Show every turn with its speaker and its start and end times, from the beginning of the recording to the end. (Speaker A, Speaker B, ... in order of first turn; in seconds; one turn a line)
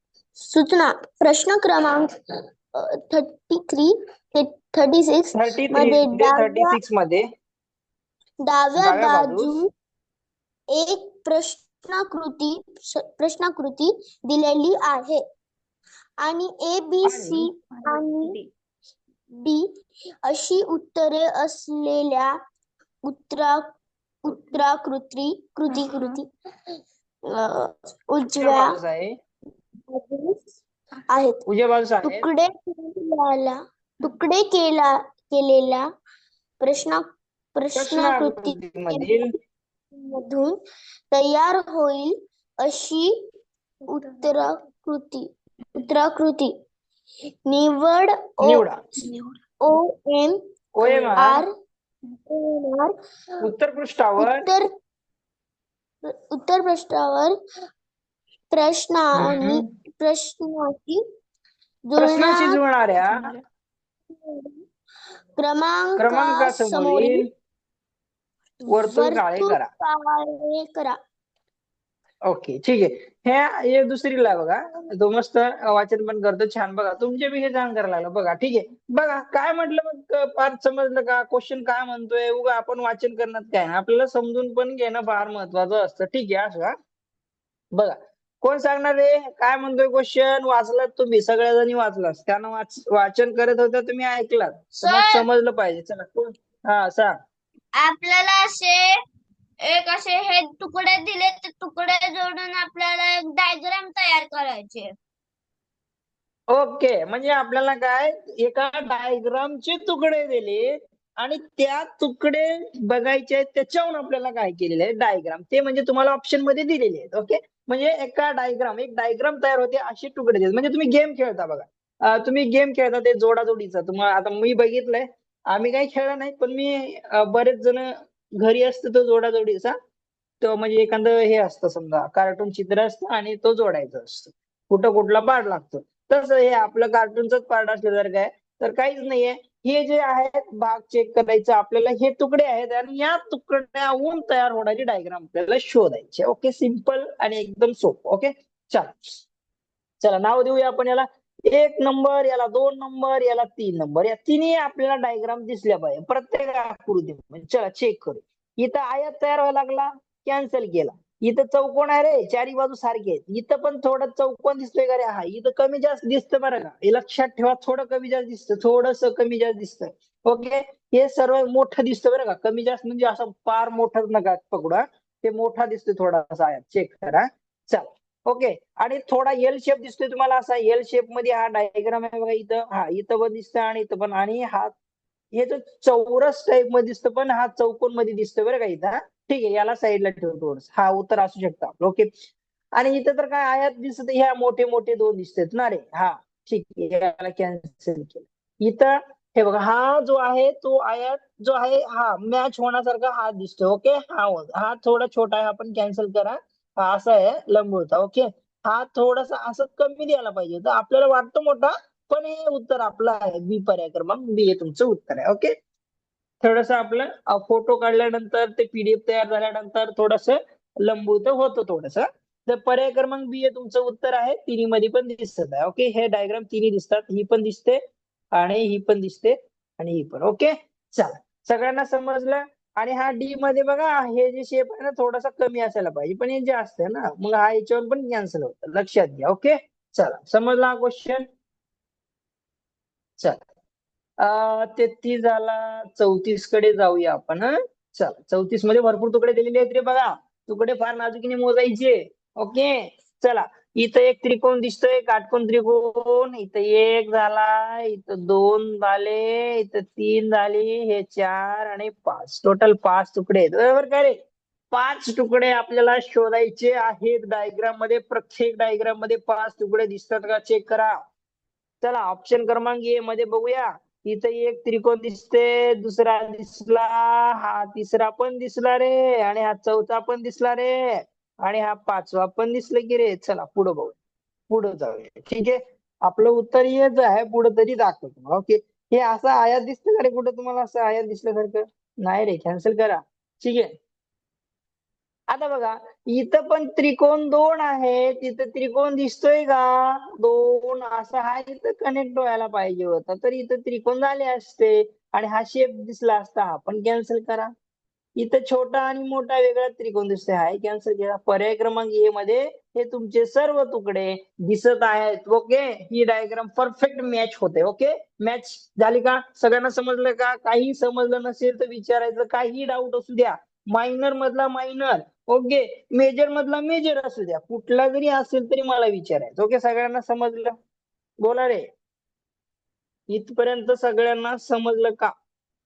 Speaker A: 0.4-2.1
Speaker A: 2.8-6.7
Speaker B: 5.3-7.2
Speaker A: 8.4-9.7
Speaker B: 8.8-9.6
Speaker A: 10.7-15.2
Speaker A: 16.2-18.4
Speaker B: 17.0-17.5
Speaker A: 19.4-19.6
Speaker A: 20.2-22.3
Speaker A: 23.1-23.6
Speaker A: 24.2-26.8
Speaker A: 27.3-28.7
Speaker B: 28.3-29.1
Speaker A: 29.9-30.4
Speaker A: 31.1-31.4
Speaker B: 31.5-32.3
Speaker A: 32.0-35.9
Speaker A: 36.6-37.0
Speaker A: 37.5-39.1
Speaker B: 37.7-39.3
Speaker A: 40.0-40.6
Speaker A: 41.1-43.1
Speaker A: 43.9-45.2
Speaker A: 45.8-46.5
Speaker A: 47.5-48.6
Speaker B: 48.4-48.8
Speaker A: 49.6-50.4
Speaker B: 50.8-51.4
Speaker A: 51.1-51.5
Speaker A: 52.3-52.9
Speaker B: 53.4-54.5
Speaker A: 54.2-54.7
Speaker A: 56.1-57.4
Speaker A: 58.5-61.0
Speaker B: 59.2-59.6
Speaker A: 61.9-62.6
Speaker B: 62.0-63.3
Speaker A: 64.1-64.6
Speaker A: 65.4-67.2
Speaker B: 66.0-67.2
Speaker A: 68.7-71.0
Speaker B: 68.7-69.7
Speaker B: 72.3-86.7
Speaker B: 87.7-97.2
Speaker C: 94.8-95.2
Speaker C: 97.8-98.9
Speaker C: 99.6-104.9
Speaker B: 106.5-129.7
Speaker B: 130.4-149.2
Speaker B: 150.0-184.7
Speaker B: 185.3-192.1
Speaker B: 192.8-215.5
Speaker B: 216.4-227.8
Speaker B: 228.3-241.2
Speaker B: 244.2-264.1
Speaker B: 264.7-270.9
Speaker B: 271.8-283.9
Speaker B: 284.5-293.7
Speaker B: 295.3-307.5
Speaker B: 308.2-330.5
Speaker B: 331.2-331.7
Speaker B: 333.1-335.1